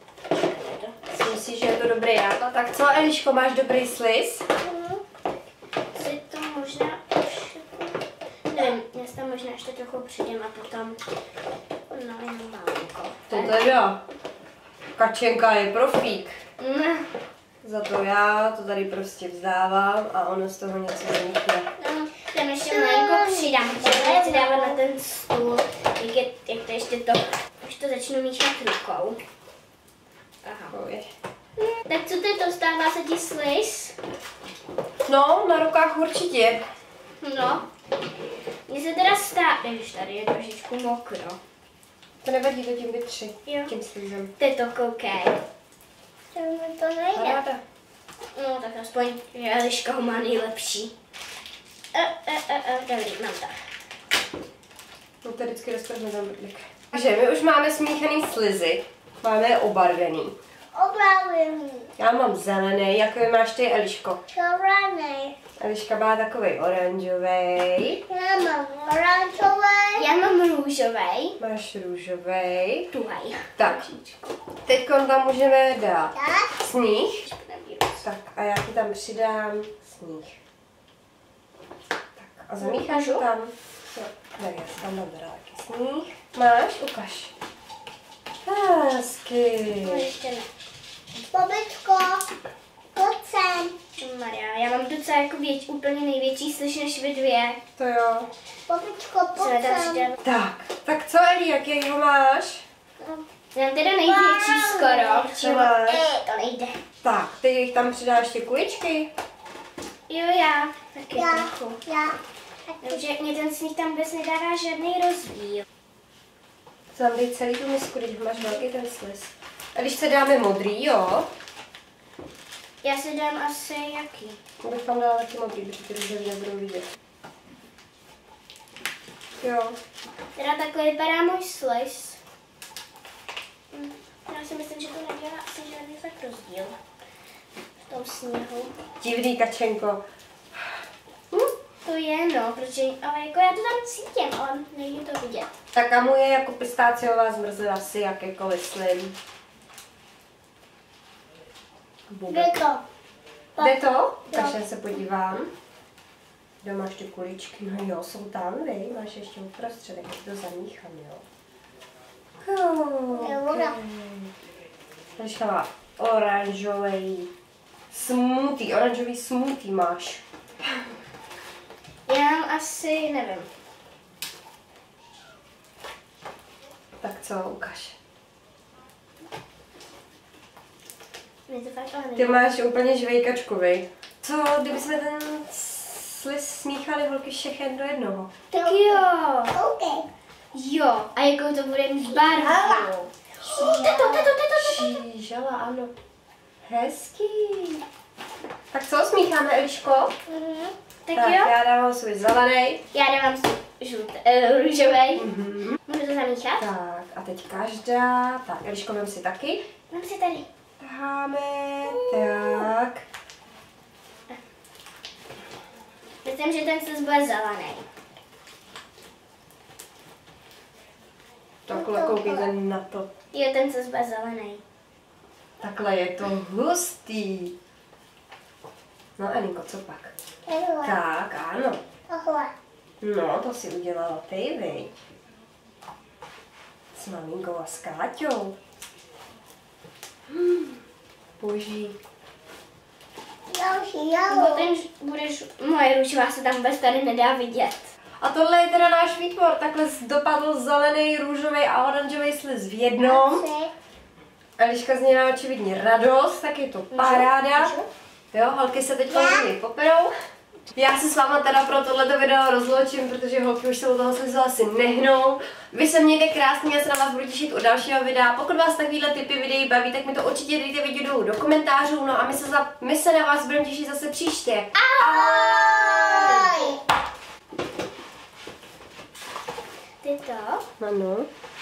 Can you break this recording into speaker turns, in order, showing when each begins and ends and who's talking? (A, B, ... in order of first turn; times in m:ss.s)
0:00.3-0:01.0 A
0:01.1-0:04.4 B
0:04.6-0:05.0 A
0:05.9-0:11.0 A
0:11.9-0:13.8 A
0:13.3-0:14.0 B
0:15.0-0:16.4 B
0:16.6-0:17.1 A
0:17.6-0:21.7 B
0:21.8-0:29.2 A
0:22.7-0:24.8 C
0:30.4-0:30.7 A
0:30.7-0:31.1 B
0:31.8-0:33.9 A
0:35.1-0:36.6 B
0:37.2-0:37.6 A
0:38.7-0:41.4 A
0:42.2-0:44.3 B
0:43.4-0:43.7 A
0:44.4-0:45.4 A
0:46.3-0:47.4 C
0:47.1-0:47.6 B
0:48.3-0:50.9 A
0:51.9-0:53.6 A
0:55.2-1:00.4 B
1:00.7-1:01.9 C
1:02.0-1:04.2 B
1:04.3-1:05.3 C
1:05.6-1:08.0 B
1:08.1-1:10.1 C
1:10.0-1:11.4 A
1:11.4-1:12.9 B
1:12.9-1:14.2 A
1:13.6-1:13.9 B
1:14.6-1:17.2 B
1:16.1-1:16.5 C
1:17.2-1:18.0 A
1:18.0-1:20.4 B
1:22.2-1:27.3 B
1:22.6-1:23.2 A
1:28.4-1:30.1 B
1:29.8-1:30.5 A
1:31.3-1:32.2 C
1:32.9-1:33.8 C
1:34.0-1:37.6 A
1:37.8-1:38.3 B
1:38.7-1:40.1 C
1:39.4-1:40.2 A
1:40.2-1:42.6 B
1:43.5-1:46.8 A
1:44.0-1:46.2 C
1:45.4-1:46.1 B
1:47.0-1:49.1 B
1:50.1-1:51.8 A
1:51.2-1:53.0 C
1:52.8-1:55.6 A
1:56.9-2:01.3 B
2:02.8-2:04.4 A
2:04.6-2:06.9 B
2:09.4-2:09.8 B
2:10.3-2:12.2 A
2:13.7-2:16.7 A
2:17.9-2:18.7 A
2:19.0-2:20.0 B
2:21.8-2:25.6 A
2:25.7-2:29.1 B
2:32.1-2:32.5 B
2:32.3-2:32.8 C
2:33.6-2:34.6 C
2:33.6-2:35.5 B
2:36.6-2:41.2 B
2:42.4-2:44.3 B
2:43.1-2:43.8 C
2:45.2-2:47.3 B
2:47.9-2:50.2 B
2:52.1-2:53.5 A
2:57.0-2:57.9 B
3:01.5-3:02.4 A
3:02.2-3:08.3 B
3:08.5-3:10.1 C
3:08.6-3:09.6 A
3:10.5-3:15.0 A
3:12.2-3:12.9 C
3:13.4-3:14.3 C
3:14.6-3:15.9 B
3:16.6-3:17.8 B
3:18.7-3:20.1 B
3:20.3-3:20.7 C
3:21.0-3:21.5 A
3:21.1-3:22.8 B
3:22.9-3:25.3 A
3:25.2-3:25.8 B
3:25.9-3:26.6 A
3:26.6-3:29.6 B
3:29.9-3:30.5 A
3:30.8-3:33.0 B
3:31.8-3:32.7 A
3:36.2-3:37.8 A
3:41.7-3:43.1 B
3:41.7-3:42.5 C
3:43.3-3:44.6 A
3:45.6-3:47.5 B
3:49.2-3:50.1 B
3:50.5-3:51.0 C
3:50.8-3:51.8 B
3:52.1-3:52.5 C
3:53.0-3:55.0 B
3:56.9-3:58.6 B
4:00.3-4:00.8 B
4:01.4-4:02.0 B
4:03.5-4:04.7 C
4:04.3-4:07.9 A
4:08.2-4:13.5 B
4:13.0-4:13.7 C
4:14.6-4:17.8 B
4:16.9-4:17.8 A
4:18.3-4:20.1 B
4:19.1-4:19.5 C
4:20.7-4:36.6 B
4:34.8-4:35.3 A
4:35.0-4:36.8 C
4:36.1-4:36.8 A
4:40.0-4:40.6 A
4:40.8-4:41.3 B